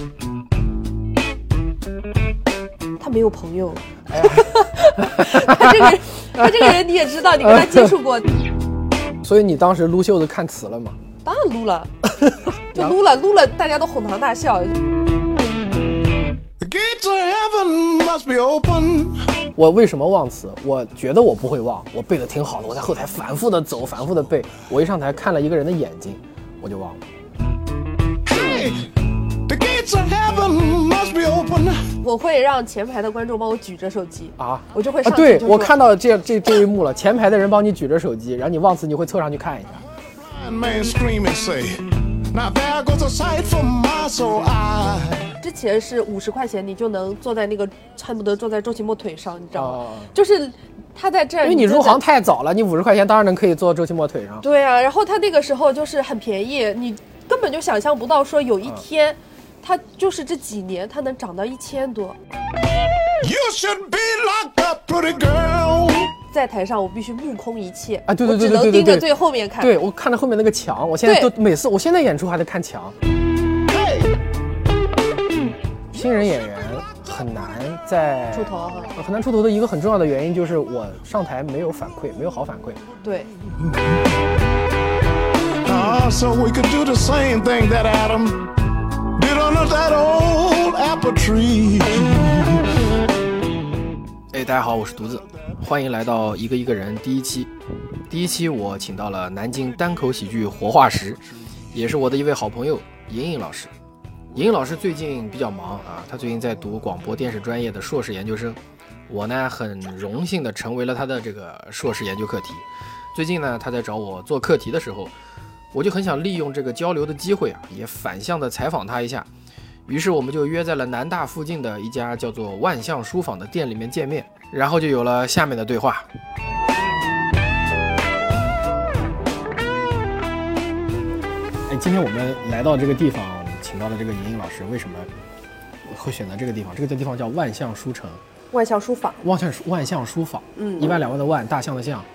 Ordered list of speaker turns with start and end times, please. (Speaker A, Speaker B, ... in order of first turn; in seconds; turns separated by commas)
Speaker A: 3.0-8.2, Speaker B: 4.1-6.8, Speaker B: 7.4-7.9, Speaker B: 9.2-11.0, Speaker A: 11.2-11.9, Speaker B: 12.2-12.9, Speaker A: 12.7-14.7, Speaker C: 16.6-19.2, Speaker B: 19.6-27.0, Speaker C: 28.2-28.9, Speaker C: 29.5-31.9, Speaker A: 32.0-35.7, Speaker B: 34.4-39.8, Speaker C: 40.0-45.3, Speaker A: 45.4-52.0, Speaker B: 49.5-50.1, Speaker B: 51.4-54.4, Speaker A: 54.4-62.2, Speaker C: 63.2-66.1, Speaker A: 66.3-69.7, Speaker B: 68.1-72.9, Speaker A: 71.0-71.3, Speaker C: 73.7-74.2, Speaker B: 75.9-82.8, Speaker A: 78.3-78.9, Speaker A: 83.0-83.3, Speaker C: 85.6-88.5, Speaker C: 89.1-92.7, Speaker B: 94.3-97.5, Speaker B: 98.1-103.7, Speaker B: 104.3-115.1, Speaker B: 115.7-119.3, Speaker B: 119.9-126.0, Speaker B: 131.7-135.1, Speaker B: 135.8-138.2, Speaker A: 138.5-139.2, Speaker B: 139.2-142.1, Speaker A: 140.5-140.9